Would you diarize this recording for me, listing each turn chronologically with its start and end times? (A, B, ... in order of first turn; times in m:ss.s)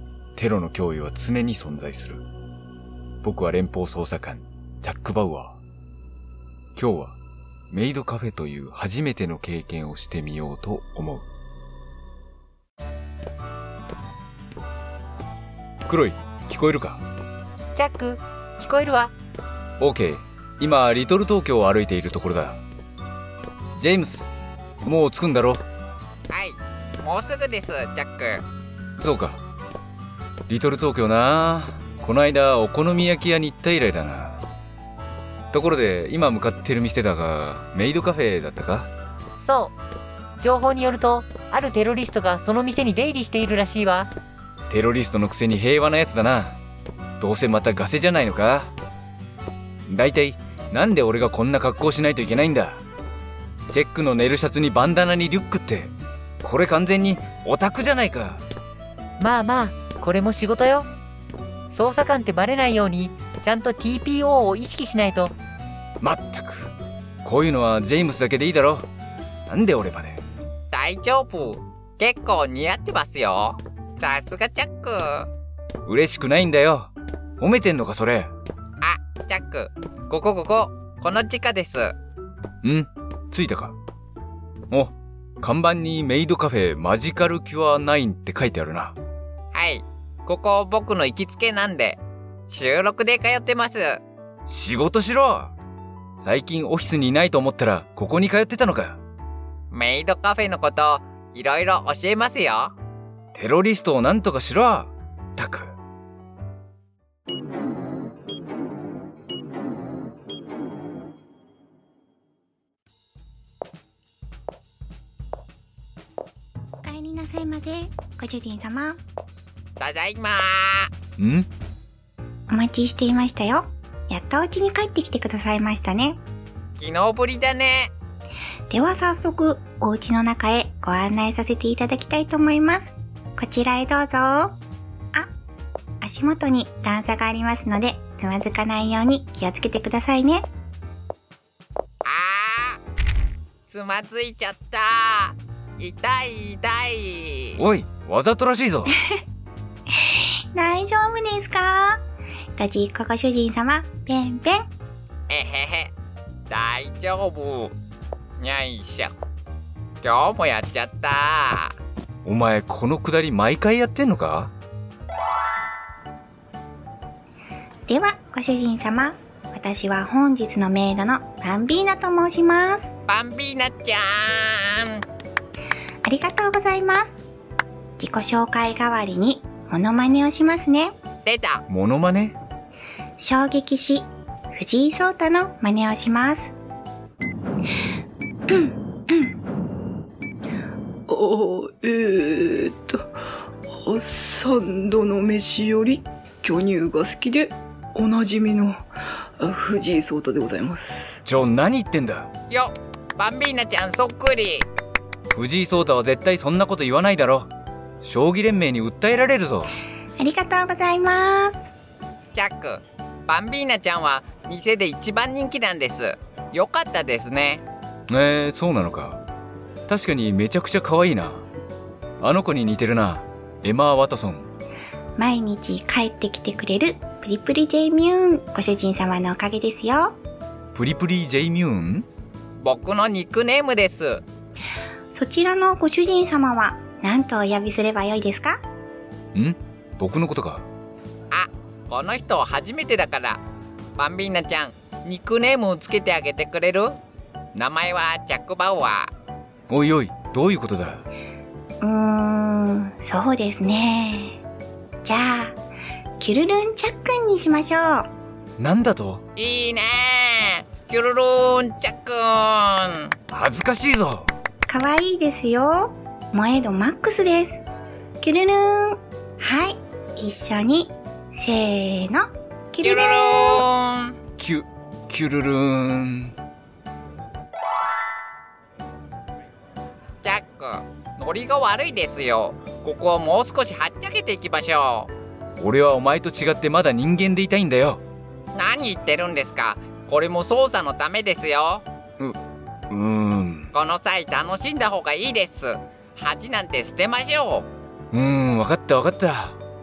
0:00.4-0:02.2 A
0:03.2-0:05.6 A
0:06.8-0:07.2 A
0:07.7-0:11.2 A
0:15.9-0:17.0 A
0:17.8-0:19.1 B
0:19.8-0:22.6 A
0:23.8-0:24.3 A
0:24.8-0:25.6 A
0:26.3-0:28.4 C
0:29.0-0:29.4 A
0:30.5-0:34.4 A
0:35.5-0:38.9 A
0:39.4-0:39.8 B
0:40.4-0:44.1 B
0:44.7-0:46.6 A
0:47.2-0:48.7 A
0:49.9-0:52.8 A
0:53.7-0:58.4 A
0:59.2-1:00.9 B
1:01.7-1:05.3 B
1:06.0-1:06.7 A
1:07.2-1:08.9 A
1:09.5-1:10.2 A
1:10.7-1:15.3 C
1:15.8-1:18.3 A
1:18.8-1:21.9 C
1:22.6-1:23.8 A
1:24.7-1:29.0 A
1:29.5-1:34.0 C
1:34.4-1:35.5 A
1:36.2-1:39.0 A
1:39.7-1:42.7 C
1:43.3-1:45.7 A
1:56.8-1:59.0 D
1:59.8-2:00.9 C
2:01.2-2:01.5 A
2:02.5-2:06.2 D
2:06.8-2:07.9 C
2:08.7-2:14.6 D
2:16.0-2:20.4 D
2:22.0-2:22.8 C
2:23.7-2:27.6 C
2:27.6-2:28.9 A
2:30.1-2:32.0 D
2:32.6-2:34.6 D
2:35.3-2:35.9 C
2:36.5-2:37.7 C
2:38.4-2:39.1 C
2:40.0-2:41.7 C
2:42.2-2:44.5 A
2:47.9-2:52.9 D
2:53.1-2:55.0 C
2:56.0-2:57.2 D
2:58.0-3:00.9 D
3:01.2-3:01.6 C
3:01.7-3:02.4 A
3:03.2-3:06.5 D
3:08.5-3:09.3 D
3:11.1-3:13.1 E
3:13.8-3:18.8 E
3:19.4-3:21.2 E
3:21.2-3:22.3 A
3:22.5-3:24.7 C
3:25.3-3:27.5 A
3:28.0-3:29.7 A
3:30.2-3:31.7 D
3:32.3-3:37.6 C
3:38.1-3:39.2 A
3:39.9-3:41.4 A
3:42.2-3:44.5 A
3:45.2-3:50.2 D
3:50.7-3:52.0 A
3:52.6-3:54.2 C
3:55.1-3:58.6 D
3:59.3-4:00.7 A
4:01.3-4:03.4 C
4:04.0-4:07.0 C
4:07.5-4:09.1 C
4:09.7-4:11.0 A
4:11.8-4:14.4 D
4:15.0-4:15.6 D
4:16.2-4:18.1 D
4:18.6-4:19.2 A
4:19.4-4:23.1 C
4:23.3-4:24.3 A
4:24.7-4:27.6 D
4:28.2-4:33.6 D
4:32.8-4:34.1 C
4:34.4-4:36.3 A
4:40.2-4:45.1 C
4:45.6-4:48.0 A
4:48.5-4:51.8 C
4:52.9-4:53.7 A
4:53.7-4:57.7 C
4:58.1-4:59.6 A